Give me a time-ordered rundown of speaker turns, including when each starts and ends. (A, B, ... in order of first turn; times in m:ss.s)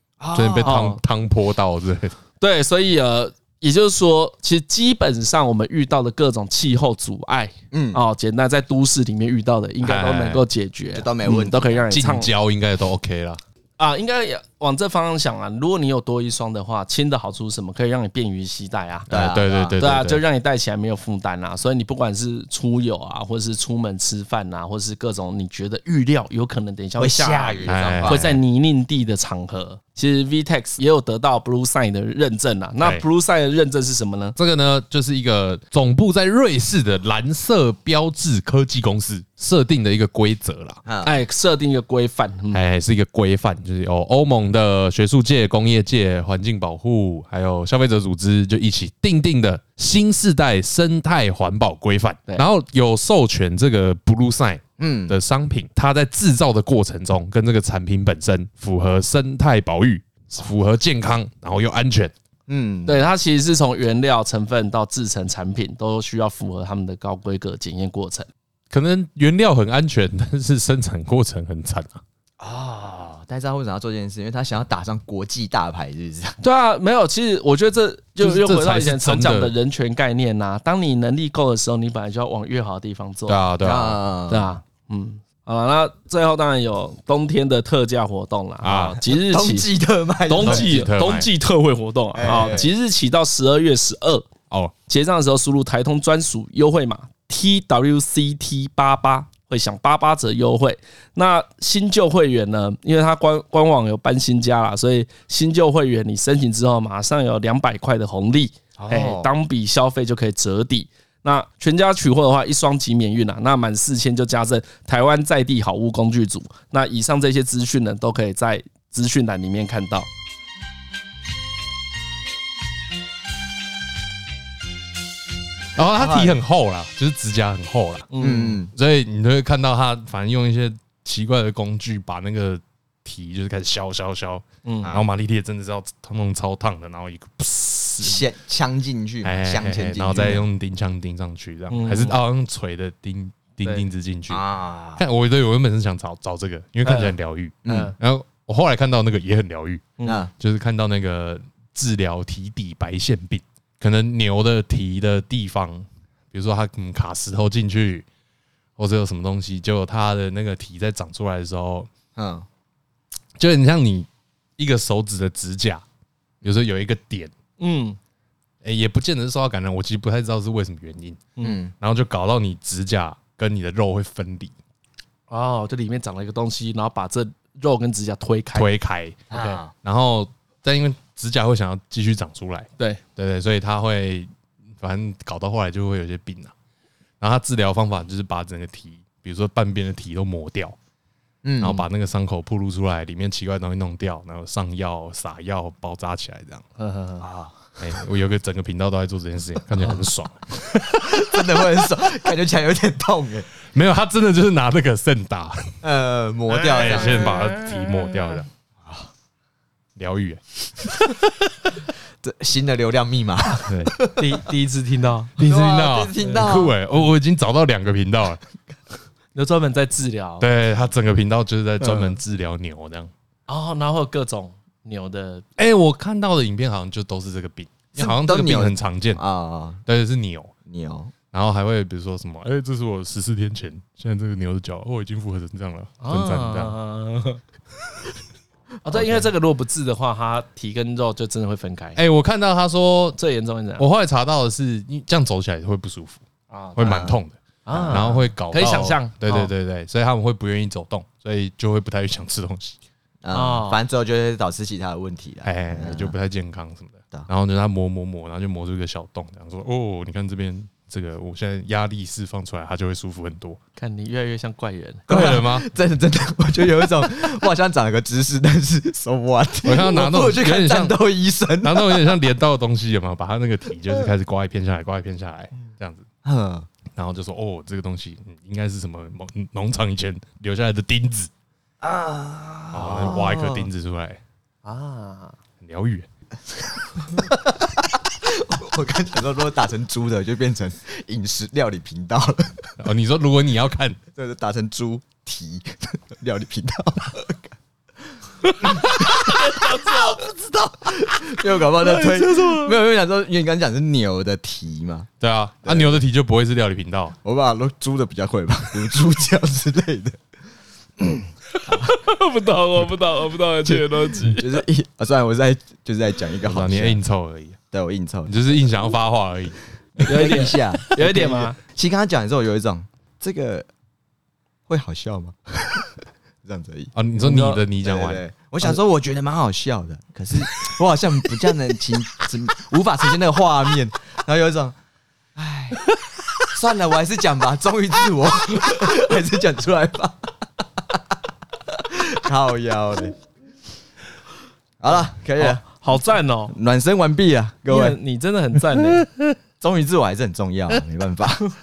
0:00.2-0:01.0 A
0:00.3-0:02.2 B
0:02.4-0:12.3 C
0:07.7-0:08.0 A
0:09.8-0:10.4 B
0:10.9-0:11.8 A
0:11.9-0:13.4 B
0:13.8-0:19.1 C
0:19.1-0:19.8 A
0:19.1-0:20.2 B
0:19.8-0:34.4 C
0:27.0-0:28.4 A
0:27.6-0:28.4 B
0:34.4-0:40.8 B
0:40.9-0:41.1 A
0:41.0-0:42.6 C
0:42.5-1:02.1 B
0:54.8-0:55.2 A
1:02.5-1:03.1 A
1:02.9-1:08.3 C
1:08.7-1:12.0 B
1:12.4-1:16.4 A
1:16.4-1:23.4 C
1:18.2-1:19.5 B
1:23.3-1:24.0 B
1:23.6-1:24.5 A
1:24.3-1:29.7 C
1:28.6-1:29.0 B
1:29.0-1:30.8 A
1:30.3-1:34.3 C
1:30.4-1:31.3 B
1:32.2-1:32.7 A
1:34.9-2:00.1 C
1:48.8-1:49.3 A
2:05.8-2:08.1 B
2:05.9-2:06.4 A
2:08.1-2:08.6 C
2:08.2-2:08.7 A
2:08.7-2:18.2 B
2:14.6-2:14.9 C
2:18.0-2:20.5 A
2:19.2-2:24.4 B
2:21.7-2:22.2 C
2:24.3-2:25.0 A
2:25.0-2:38.0 B
2:26.8-2:27.2 C
2:27.6-2:27.9 A
2:27.7-2:27.9 C
2:30.0-2:30.2 C
2:30.0-2:30.3 A
2:38.8-2:41.9 B
2:42.2-2:42.5 A
2:43.4-2:45.8 B
2:46.4-2:47.3 B
2:47.6-2:48.0 C
2:48.6-2:51.3 B
2:51.4-2:51.7 A
2:51.8-2:54.5 B
2:55.3-2:58.7 C
2:58.6-3:06.5 B
2:59.3-2:59.7 A
3:07.2-3:10.8 B
3:11.4-3:11.9 A
3:11.6-3:16.6 B
3:16.8-3:17.3 C
3:17.2-3:17.6 A
3:17.8-3:21.7 B
3:21.0-3:23.5 A
3:23.7-3:25.7 B
3:25.8-3:27.5 A
3:26.6-3:28.5 B
3:28.8-3:29.1 A
3:30.0-3:31.0 B
3:32.2-3:34.4 A
3:33.7-3:34.0 B
3:34.2-3:35.3 C
3:35.4-3:38.4 B
3:35.4-3:36.8 A
3:39.4-3:40.5 C
3:40.4-3:43.1 B
3:41.8-3:42.2 A
3:43.5-3:45.4 C
3:45.6-3:49.2 B
3:48.0-3:49.8 A
3:49.9-3:50.5 B
3:50.7-3:51.1 A
3:51.3-3:56.8 B
3:56.0-3:57.4 C
3:58.8-4:02.0 C
3:58.9-3:59.3 A
4:02.0-4:03.2 B
4:03.2-4:03.9 C
4:03.8-4:06.2 B
4:06.5-4:07.0 C
4:06.8-4:12.8 B
4:06.8-4:07.2 A
4:07.7-4:09.5 C
4:07.7-4:08.3 A
4:13.2-4:16.1 A
4:13.3-4:13.8 C
4:15.4-4:23.6 B
4:23.8-4:25.1 C
4:25.1-4:25.7 B
4:25.1-4:32.2 A
4:29.6-4:31.0 B
4:31.6-4:36.1 B
4:36.2-4:36.7 A
4:37.0-4:41.3 B
4:41.8-4:43.6 A
4:42.7-4:44.2 B
4:44.6-4:45.4 C
4:45.6-4:46.1 B
4:47.0-4:52.7 A
4:52.8-4:54.0 B
4:54.2-4:57.6 A
4:58.6-5:00.7 C
4:58.6-5:05.1 A
5:01.5-5:02.8 C
5:05.2-5:07.2 B
5:05.6-5:06.0 A
5:07.2-5:10.2 A
5:11.0-5:12.0 A
5:11.5-5:14.6 C
5:14.1-5:17.0 A
5:16.4-5:17.6 B
5:17.7-5:18.4 A
5:18.3-5:19.6 B
5:20.0-5:23.7 A
5:20.0-5:21.6 C
5:24.7-5:26.9 A
5:27.0-5:28.2 B
5:27.2-5:27.6 C
5:27.8-5:34.8 A
5:35.4-5:35.8 A
5:36.5-5:40.3 A
5:41.7-5:43.2 A
5:44.8-5:45.6 A
5:45.4-5:46.6 C
5:46.5-5:48.0 A
5:47.7-5:49.1 C
5:49.6-5:51.5 A